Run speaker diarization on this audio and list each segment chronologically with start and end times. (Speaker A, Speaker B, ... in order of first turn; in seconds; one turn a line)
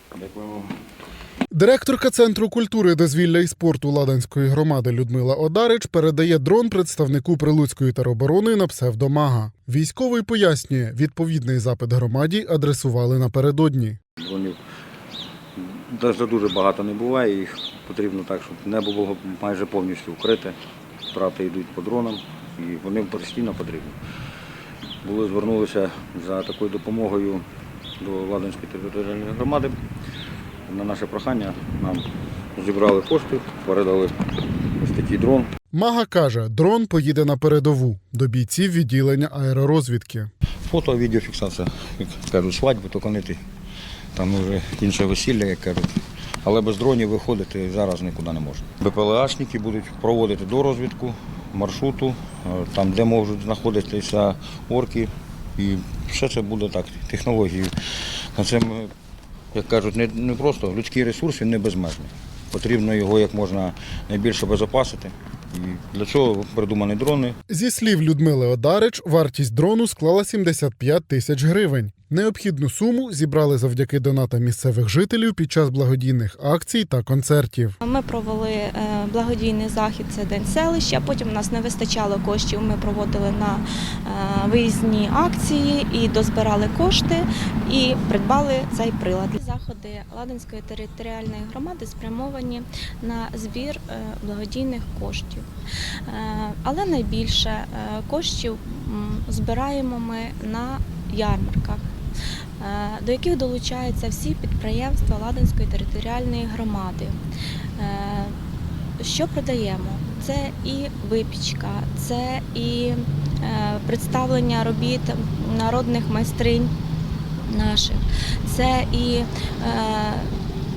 Speaker A: 0.1-0.7
Speaker B: 1.5-14.0
Speaker A: 14.2-14.6
Speaker A: 15.6-20.6
Speaker A: 21.1-23.9
Speaker A: 25.0-27.4
Speaker A: 28.0-29.7
Speaker A: 30.7-34.1
Speaker A: 34.8-35.5
Speaker B: 35.7-40.3
Speaker A: 40.6-43.4
Speaker A: 44.1-58.9
Speaker A: 59.5-67.3
Speaker B: 67.5-77.8
Speaker C: 77.8-95.5
Speaker C: 96.0-101.8
Speaker C: 102.6-107.2
Speaker C: 107.8-108.3
Speaker C: 109.0-116.7
Speaker C: 117.4-120.3